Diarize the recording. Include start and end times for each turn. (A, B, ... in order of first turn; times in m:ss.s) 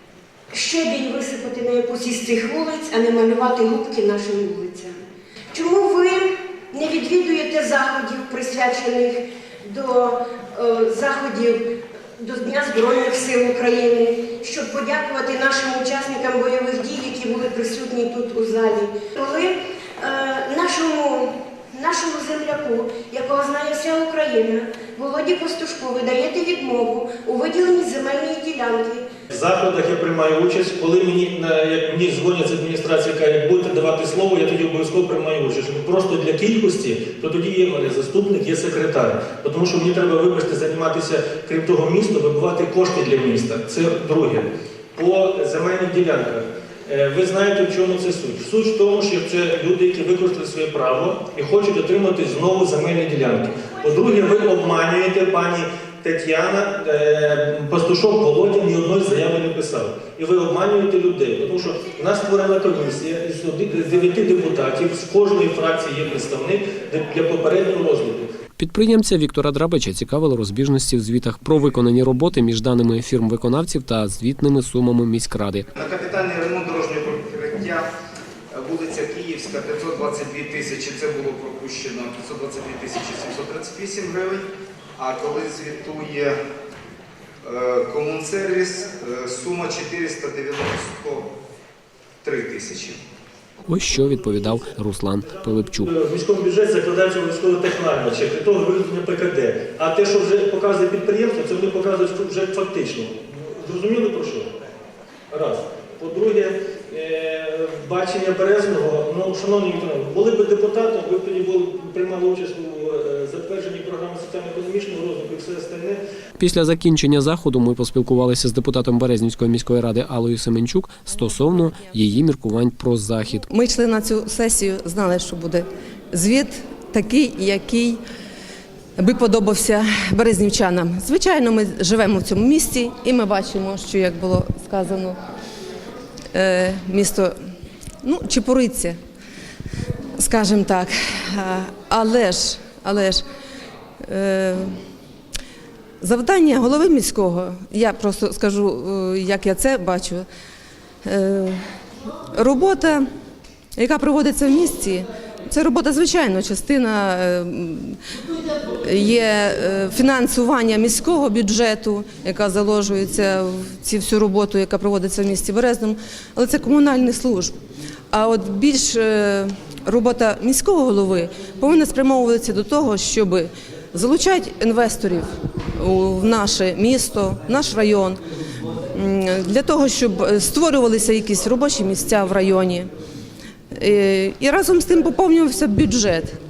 0:00.5-0:11.6 A
0:12.2-0:29.1 A
0:29.3-1:08.3 B
1:08.6-1:15.7 C
1:15.8-1:17.9 D
1:18.5-1:24.5 D
1:25.0-1:26.4 D
1:27.4-1:31.3 D
1:32.2-1:33.0 D
1:33.7-1:35.9 C
1:35.8-1:44.5 B
1:45.3-1:56.0 B
1:56.4-2:03.4 C
2:03.4-2:08.0 E
2:09.0-2:15.2 E
2:16.3-2:17.3 E
2:18.0-2:19.0 E
2:20.2-2:23.2 E
2:24.0-2:24.8 E
2:26.0-2:30.3 E
2:31.0-2:31.6 E
2:32.4-2:33.1 E
2:33.8-2:38.0 E
2:38.8-2:47.5 E
2:48.1-2:55.3 E
2:55.8-2:58.2 E
2:58.9-3:02.9 E
3:03.8-3:06.4 E